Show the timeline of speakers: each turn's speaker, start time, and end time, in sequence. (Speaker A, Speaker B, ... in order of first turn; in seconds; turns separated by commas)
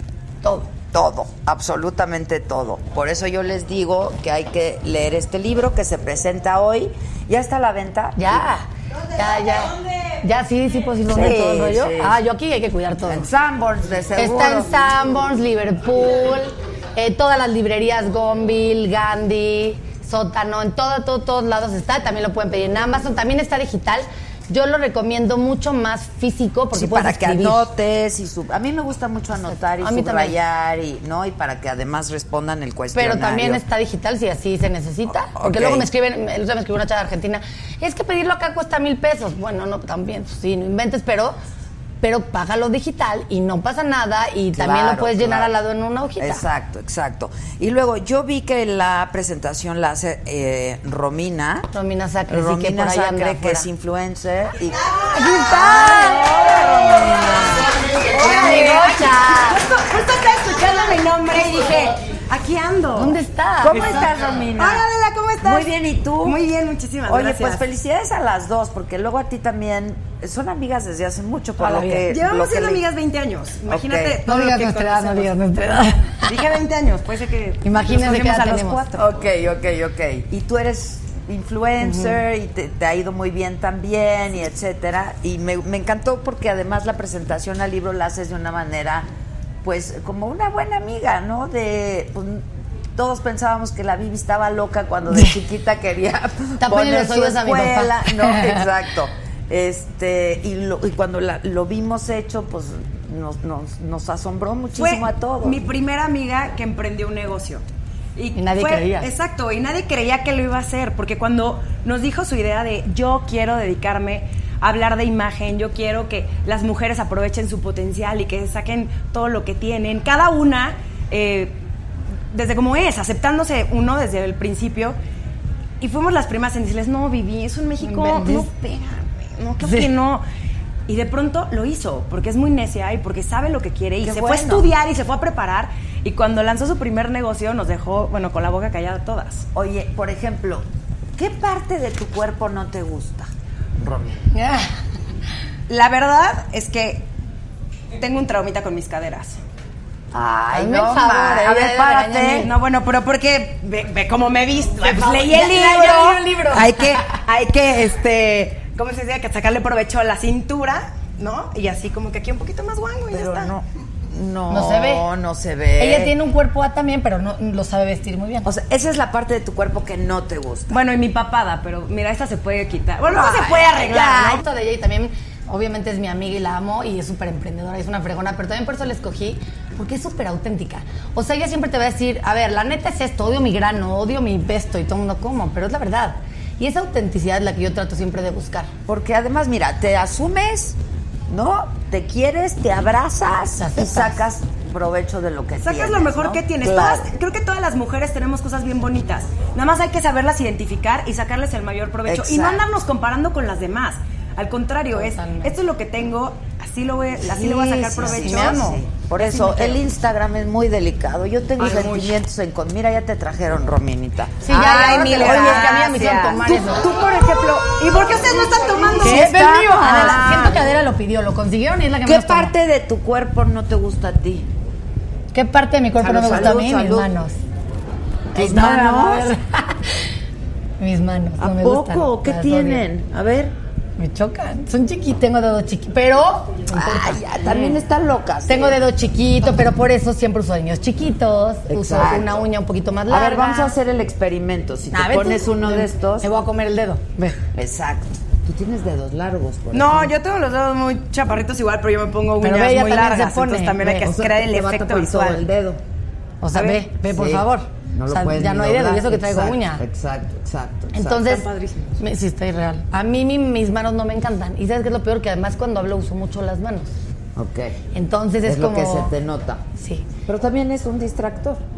Speaker A: 0.4-0.7, Speaker B: 0.9-8.4, Speaker A: 8.2-13.3, Speaker B: 11.1-12.2, Speaker B: 13.1-14.7, Speaker A: 14.2-27.7, Speaker B: 26.7-33.6, Speaker A: 29.5-30.4, Speaker A: 32.9-41.4, Speaker B: 35.1-35.9, Speaker A: 42.0-46.4, Speaker B: 44.5-45.5, Speaker B: 46.2-51.7, Speaker A: 51.7-53.7, Speaker B: 52.3-58.8, Speaker C: 55.0-56.7, Speaker A: 55.1-56.5, Speaker C: 57.3-63.2, Speaker A: 58.1-59.6, Speaker A: 62.9-63.8, Speaker B: 63.6-64.9, Speaker C: 63.7-67.7, Speaker B: 65.4-66.4, Speaker B: 67.1-72.8, Speaker A: 71.6-72.1, Speaker C: 72.1-75.3, Speaker B: 73.7-74.2, Speaker A: 74.2-76.4, Speaker C: 76.3-79.0, Speaker A: 77.6-79.0, Speaker B: 78.8-89.1, Speaker A: 81.8-82.2, Speaker B: 89.6-92.4, Speaker B: 93.0-105.6, Speaker A: 96.6-98.7, Speaker C: 104.7-107.6, Speaker C: 108.2-121.6, Speaker A: 108.3-109.1, Speaker C: 122.3-125.0, Speaker C: 125.8-130.2, Speaker A: 127.8-128.5, Speaker A: 129.6-129.9, Speaker C: 130.9-139.5, Speaker B: 134.0-134.7, Speaker B: 139.5-140.7, Speaker B: 141.2-144.3, Speaker A: 144.3-144.7, Speaker C: 145.7-147.1, Speaker C: 148.0-149.4, Speaker B: 150.1-152.5, Speaker A: 150.5-152.5, Speaker C: 152.4-163.5, Speaker A: 154.8-156.8, Speaker B: 163.1-166.2, Speaker A: 164.5-165.1, Speaker A: 165.8-168.5, Speaker B: 168.4-170.8, Speaker C: 170.7-174.4, Speaker B: 173.1-174.4, Speaker A: 174.1-188.7, Speaker B: 188.9-190.8, Speaker B: 191.3-197.1, Speaker A: 193.6-194.2, Speaker C: 195.6-208.8, Speaker B: 202.1-202.6, Speaker A: 204.9-205.6, Speaker B: 207.2-215.8, Speaker A: 207.8-209.7, Speaker C: 211.6-212.2, Speaker A: 214.4-216.9, Speaker C: 214.5-220.5, Speaker B: 218.8-220.6, Speaker A: 219.0-222.5, Speaker B: 222.0-224.5, Speaker A: 225.3-227.3, Speaker B: 226.0-227.1, Speaker B: 228.3-229.3, Speaker A: 228.3-230.1, Speaker A: 230.8-232.8, Speaker B: 231.4-233.6, Speaker A: 234.0-237.8, Speaker B: 236.7-238.8, Speaker A: 238.5-243.7, Speaker B: 241.7-242.5, Speaker B: 243.1-246.3, Speaker A: 244.9-247.3, Speaker B: 247.4-250.1, Speaker C: 249.7-255.4, Speaker A: 252.4-254.1, Speaker B: 254.0-255.8, Speaker A: 256.4-259.8, Speaker C: 256.5-256.8, Speaker B: 257.1-261.4, Speaker A: 260.9-266.9, Speaker C: 261.3-261.9, Speaker B: 267.4-267.8, Speaker A: 267.9-269.1, Speaker B: 268.4-269.6, Speaker A: 269.8-270.1, Speaker B: 270.3-271.6